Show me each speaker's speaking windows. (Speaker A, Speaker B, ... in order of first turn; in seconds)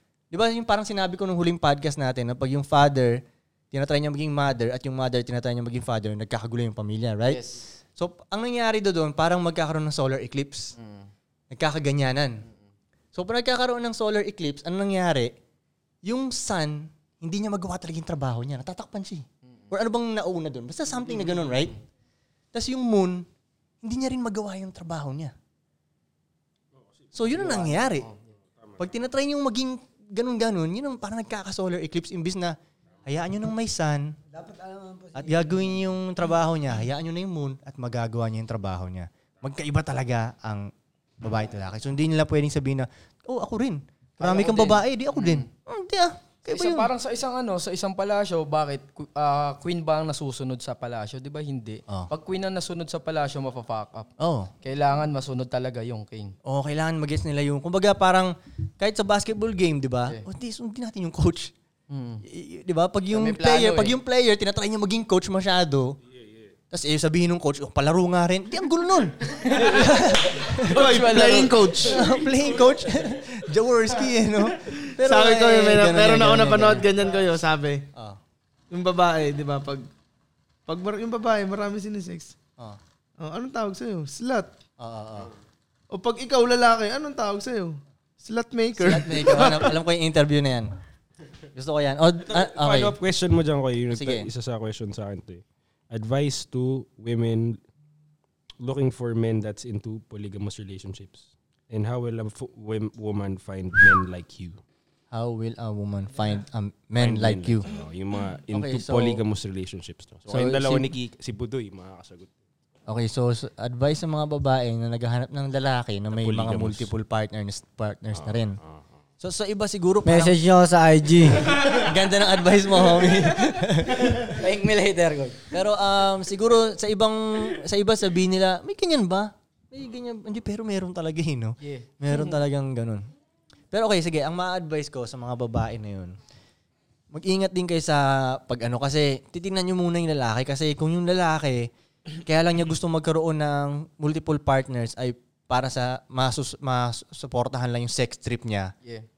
Speaker A: 0.3-7.4, 8.0-10.7, 11.5-12.4, 13.1-15.3, 16.0-21.8, 22.5-23.2, 23.8-25.3, 27.1-28.1, 28.8-34.2, 35.1-40.7, 41.2-46.9, 54.2-54.5, 56.4-61.5, 62.2-66.0, 66.7-70.8, 71.8-76.9, 77.9-78.2, 84.8-85.3, 88.8-90.7, 91.5-92.9, 93.9-94.3, 105.1-107.7, 108.5-109.2, 110.3-110.9, 112.9-118.6, 119.2-120.4, 121.6-124.4, 125.5-133.1, 133.7-136.1, 137.1-141.7, 142.2-148.7
Speaker B: 7.2-7.7, 10.8-11.1, 27.4-28.1, 44.2-45.5, 46.5-54.1, 54.6-56.3, 61.9-62.2, 63.1-64.0, 69.4-71.9, 131.6-132.4
Speaker C: 34.3-35.8, 120.0-121.5, 124.1-125.4
Speaker D: 70.7-72.0, 75.0-77.8, 78.7-79.9, 80.7-82.3, 83.2-84.5, 85.9-89.7
Speaker E: 92.3-97.6, 98.6-104.6, 107.0-112.3, 116.2-116.9, 118.2-118.8